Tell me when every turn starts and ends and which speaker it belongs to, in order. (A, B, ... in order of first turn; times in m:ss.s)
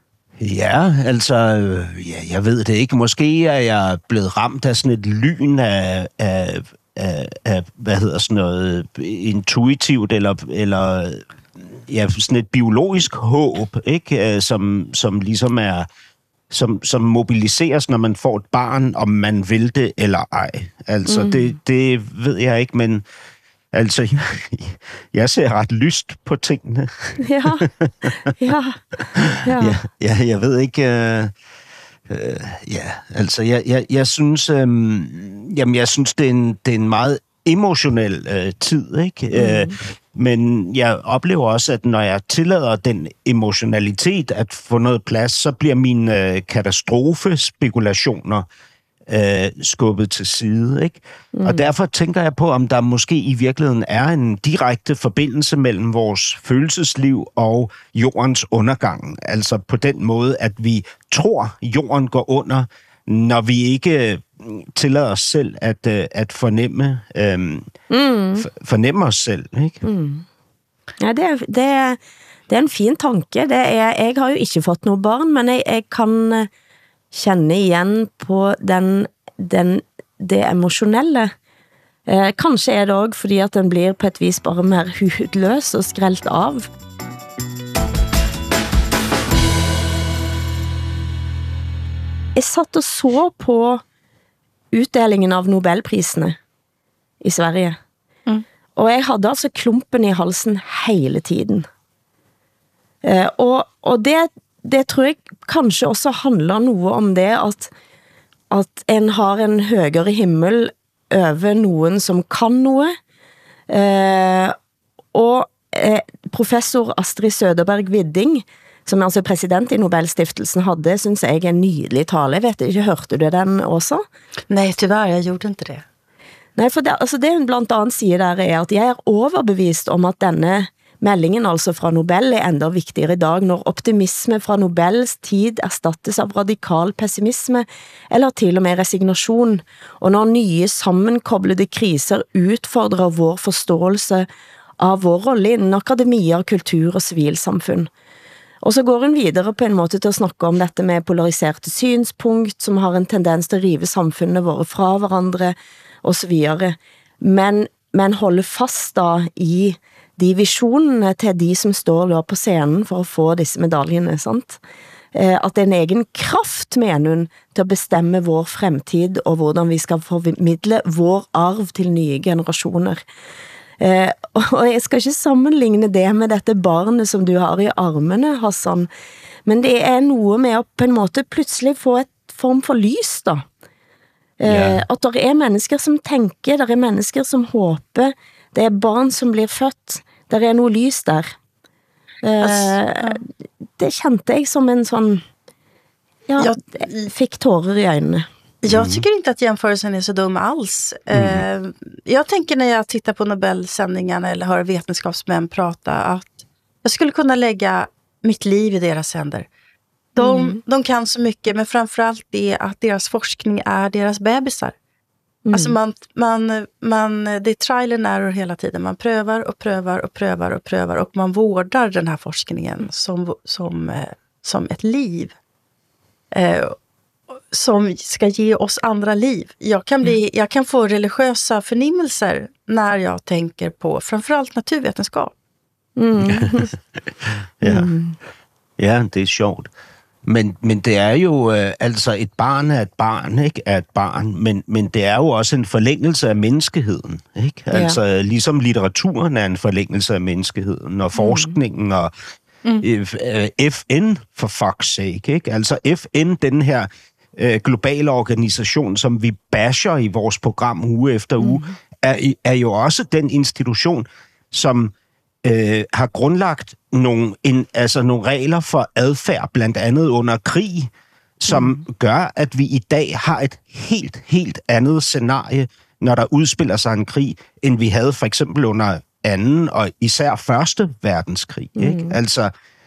0:00.4-0:11.2 A
0:11.8-0:15.9 A
0:16.5-0:23.0 A
0:21.1-0:21.5 B
0:23.7-0:28.1 A
0:27.2-0:27.7 B
0:28.4-0:28.8 B
0:29.2-0:31.3 A
0:29.4-0:29.8 B
0:32.1-0:48.5 A
0:39.4-0:39.7 B
0:49.1-1:07.7 A
0:51.3-0:51.6 B
1:07.9-1:08.5 B
1:08.4-1:09.8 A
1:09.8-1:10.2 B
1:11.0-1:16.5 B
1:17.1-1:21.3 B
1:22.1-1:26.7 B
1:32.4-1:33.8 B
1:34.7-1:36.4 B
1:37.2-1:37.8 B
1:38.8-1:41.7 B
1:43.0-1:47.7 B
1:48.5-1:53.0 B
1:53.7-1:54.6 B
1:55.1-2:04.0 B
2:04.5-2:05.8 C
2:06.6-2:24.3 B
2:24.8-2:27.9 B
2:28.6-2:44.6 B
2:45.1-2:53.0 B
2:53.8-2:58.9 B
2:59.5-3:03.4 B
3:04.4-3:11.4 B
3:04.4-3:04.8 A
3:12.2-3:13.2 B
3:12.4-3:13.2 C
3:13.8-3:15.2 B
3:16.3-3:18.3 B
3:16.4-3:17.1 C
3:18.6-3:29.5 C
3:18.7-3:19.0 A
3:21.1-3:21.4 A
3:30.2-3:34.7 C
3:30.2-3:30.6 B
3:35.5-3:35.8 B
3:35.5-3:45.3 C
3:46.3-3:46.8 C
3:47.5-3:55.3 C
3:56.0-3:56.7 B
3:57.6-3:57.9 A
3:57.6-3:58.2 B
3:58.8-3:59.7 A
4:00.2-4:12.1 A
4:07.7-4:08.0 B
4:11.2-4:11.6 B
4:12.8-4:24.9 A
4:21.4-4:21.7 B
4:25.4-4:42.5 A
4:31.5-4:31.8 B
4:41.8-4:42.2 B